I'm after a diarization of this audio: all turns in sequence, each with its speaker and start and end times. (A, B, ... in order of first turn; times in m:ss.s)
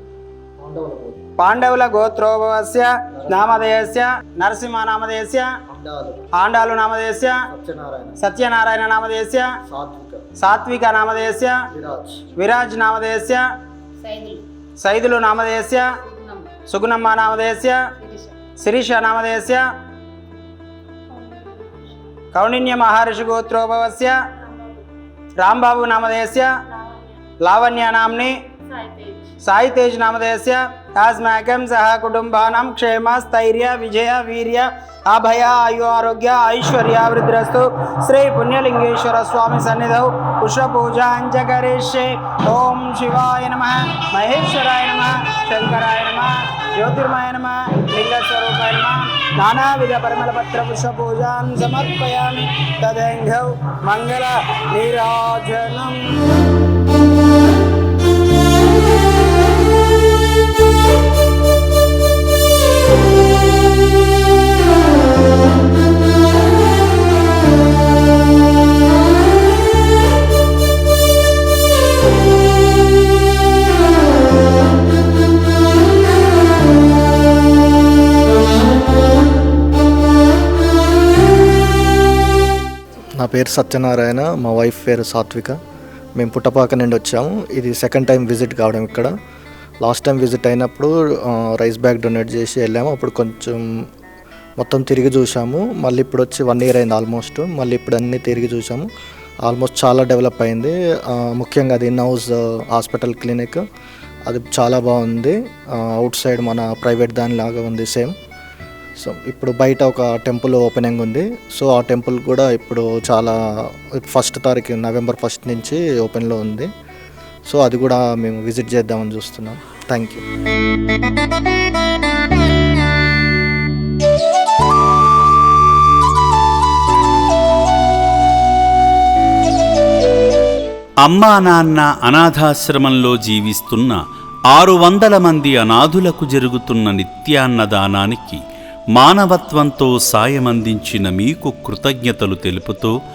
0:00.6-0:01.2 A
0:01.4-0:05.6 B
0:03.2-0:03.7 A
0:05.7-0:06.3 A
0:06.3-0:07.4 B
0:07.5-0:08.2 A
0:08.2-0:09.6 B
0:09.7-0:10.3 A
0:10.4-0:11.6 B
0:11.7-0:12.3 A
0:12.3-0:13.4 B
0:14.0-0:14.4 C
0:14.8-0:16.0 B
0:16.1-0:16.5 C
0:16.6-0:17.9 B
0:18.6-0:19.7 B
0:21.1-0:21.8 C
0:22.3-0:24.2 B
0:25.4-0:26.5 B
0:27.4-0:28.5 B
0:28.7-0:29.3 C
0:29.4-0:56.0 B
1:23.2-1:25.6 A
1:26.2-1:29.1 A
1:29.8-1:33.6 A
1:34.6-1:38.9 A
1:39.4-1:43.6 A
1:44.2-1:48.1 A
1:49.0-1:53.4 A
1:53.9-1:56.7 A
1:57.5-2:00.2 A
2:11.0-2:14.0 D
2:14.5-2:18.4 D
2:18.9-2:22.9 D